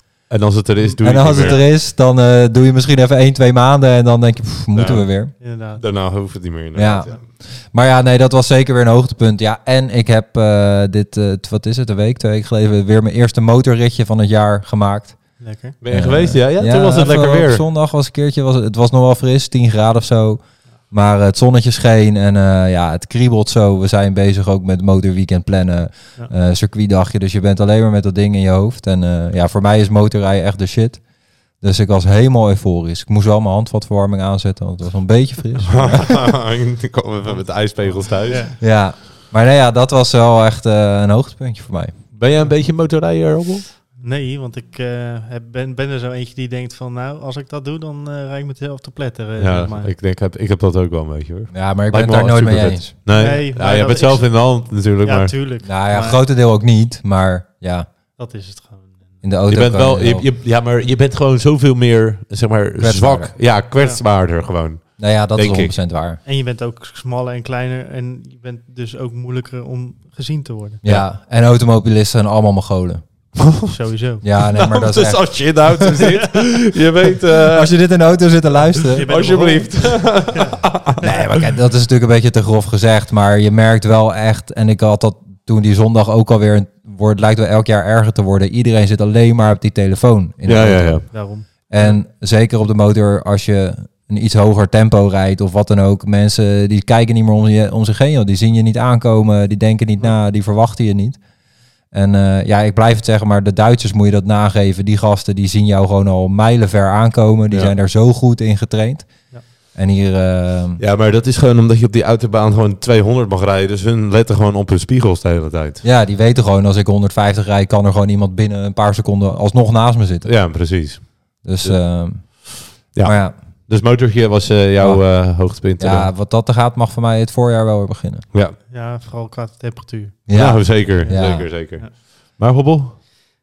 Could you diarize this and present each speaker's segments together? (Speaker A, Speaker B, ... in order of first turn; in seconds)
Speaker A: 0.3-1.6, 4.7-7.2, 15.8-17.6, 35.7-38.5, 42.1-43.7, 49.4-55.4, 59.5-65.8, 73.4-73.7, 74.4-77.9, 79.0-81.1, 90.4-91.2, 107.5-107.8, 110.8-115.8, 120.2-126.1, 128.3-128.6, 130.3-133.0
Speaker B: 0.8-1.6, 5.4-5.8, 15.4-15.8, 37.2-38.6, 44.0-49.9, 53.1-56.2, 58.2-59.2, 63.8-64.0, 66.2-70.8, 73.7-74.2, 78.9-81.2, 91.1-92.0, 128.7-131.9
Speaker C: 1.0-5.3, 6.8-36.2, 38.6-42.0, 51.5-52.9, 55.6-57.9, 59.2-60.3, 62.8-63.4, 65.0-66.2, 70.8-73.0, 74.2-76.1, 77.5-79.2, 81.0-101.2, 101.9-110.8, 115.8-123.3, 124.8-128.3, 130.3-131.5